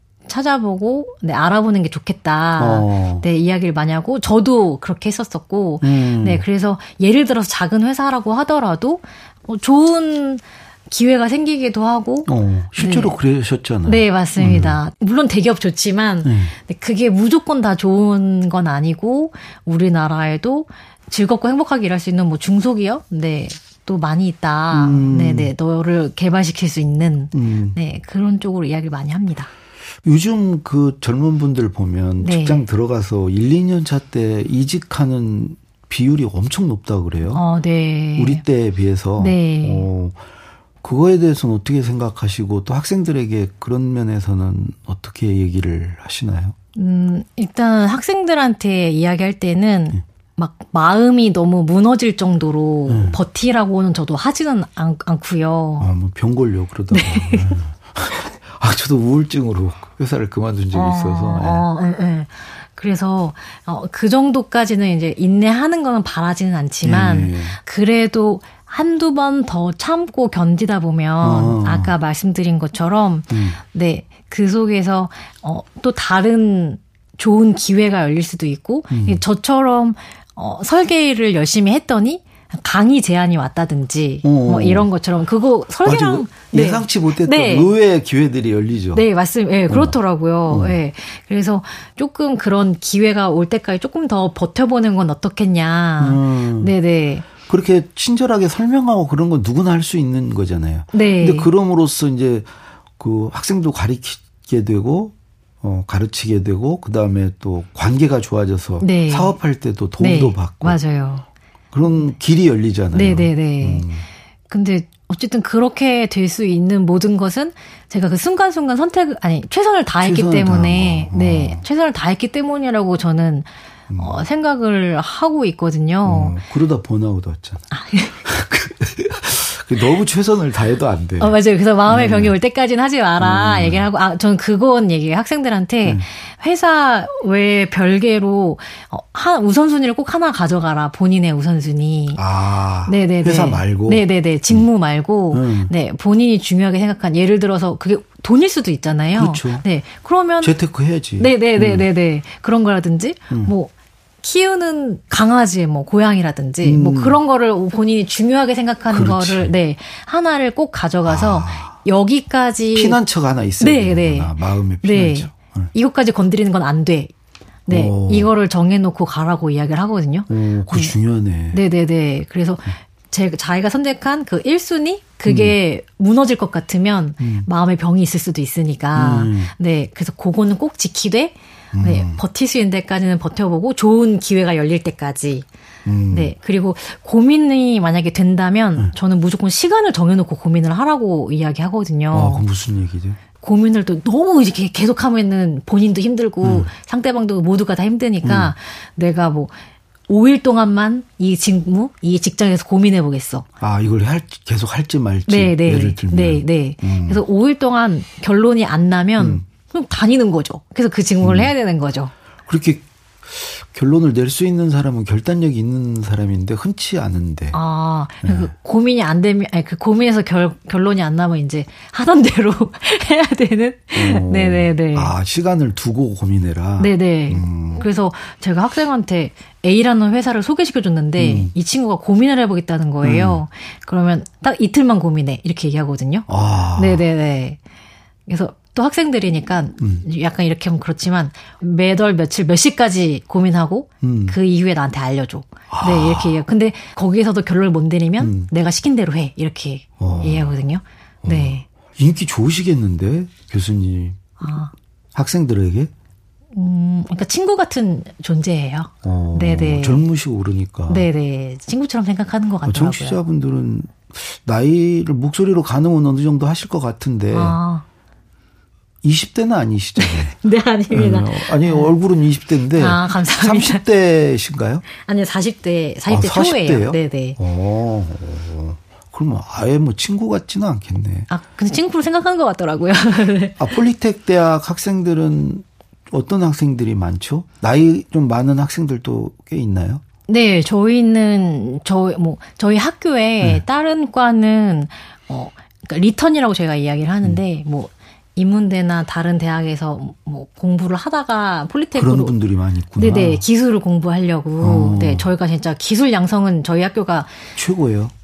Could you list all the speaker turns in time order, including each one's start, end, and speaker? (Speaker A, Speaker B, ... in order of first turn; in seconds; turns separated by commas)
Speaker A: 0.2-13.2, Speaker B: 2.6-3.2, Speaker B: 5.8-6.4, Speaker B: 12.2-14.8, Speaker A: 13.8-29.5, Speaker B: 16.2-16.5, Speaker B: 24.7-25.5, Speaker B: 27.3-27.8, Speaker B: 30.0-37.4, Speaker A: 32.2-32.6, Speaker A: 37.3-38.4, Speaker B: 38.2-40.2, Speaker A: 39.2-39.9, Speaker B: 40.8-46.5, Speaker A: 46.8-55.9, Speaker B: 52.9-53.2, Speaker B: 55.8-61.6, Speaker A: 56.9-57.6, Speaker A: 60.7-87.7, Speaker B: 66.8-67.6, Speaker B: 71.2-71.9, Speaker B: 73.3-73.6, Speaker B: 78.9-79.2, Speaker B: 84.2-84.9, Speaker B: 85.8-89.1, Speaker A: 88.9-97.2, Speaker B: 89.7-90.0, Speaker B: 90.5-90.8, Speaker B: 96.0-96.7, Speaker B: 97.3-110.8, Speaker A: 100.9-101.5, Speaker A: 108.8-109.3, Speaker A: 110.0-111.2, Speaker B: 111.7-114.1, Speaker A: 112.9-113.8, Speaker A: 114.5-126.3, Speaker B: 120.0-121.6, Speaker B: 123.9-124.2, Speaker B: 126.0-127.7, Speaker A: 127.7-128.2, Speaker B: 128.2-131.3, Speaker A: 131.2-142.2, Speaker B: 131.8-132.3, Speaker B: 133.2-133.8, Speaker B: 142.2-144.7, Speaker A: 142.8-150.6, Speaker B: 145.3-145.7, Speaker B: 149.1-149.6, Speaker B: 150.4-151.8, Speaker A: 151.2-153.7, Speaker B: 153.3-153.5, Speaker A: 154.2-163.0, Speaker B: 156.6-157.2, Speaker B: 158.9-159.5, Speaker B: 161.1-161.8, Speaker B: 162.7-165.7, Speaker A: 163.6-167.1, Speaker A: 167.7-170.9, Speaker B: 167.7-168.3, Speaker B: 170.3-171.6, Speaker A: 171.5-185.4, Speaker B: 175.2-175.5, Speaker B: 177.2-177.5, Speaker B: 178.9-179.5, Speaker B: 181.7-182.2, Speaker B: 185.8-186.3, Speaker A: 186.1-192.4, Speaker B: 192.1-193.2, Speaker A: 193.4-199.5, Speaker B: 196.4-196.7, Speaker B: 198.2-198.5, Speaker A: 200.1-203.5, Speaker B: 203.6-207.2, Speaker A: 205.3-212.1, Speaker B: 209.2-209.4, Speaker B: 211.2-211.5, Speaker B: 212.5-217.6, Speaker A: 217.5-225.1, Speaker B: 218.2-218.5, Speaker B: 223.9-227.8, Speaker A: 226.8-237.6, Speaker B: 231.2-231.5, Speaker B: 233.0-233.4, Speaker B: 236.3-237.0, Speaker A: 238.3-251.6, Speaker B: 244.0-244.4, Speaker B: 245.7-246.4, Speaker B: 248.2-248.5, Speaker B: 250.0-250.5, Speaker B: 251.2-254.4, Speaker A: 254.4-254.7, Speaker B: 255.1-255.9, Speaker A: 256.5-260.1, Speaker B: 259.0-261.1, Speaker A: 260.9-263.2, Speaker B: 262.6-267.6, Speaker A: 267.3-267.8, Speaker B: 269.0-270.4, Speaker A: 270.0-271.9, Speaker B: 270.9-274.8, Speaker A: 272.8-273.8, Speaker A: 275.0-277.4, Speaker B: 276.1-281.3, Speaker A: 281.3-283.8, Speaker B: 283.6-290.0, Speaker A: 290.3-302.4, Speaker B: 301.9-303.4, Speaker A: 303.0-307.4, Speaker B: 304.6-305.3, Speaker B: 307.6-308.1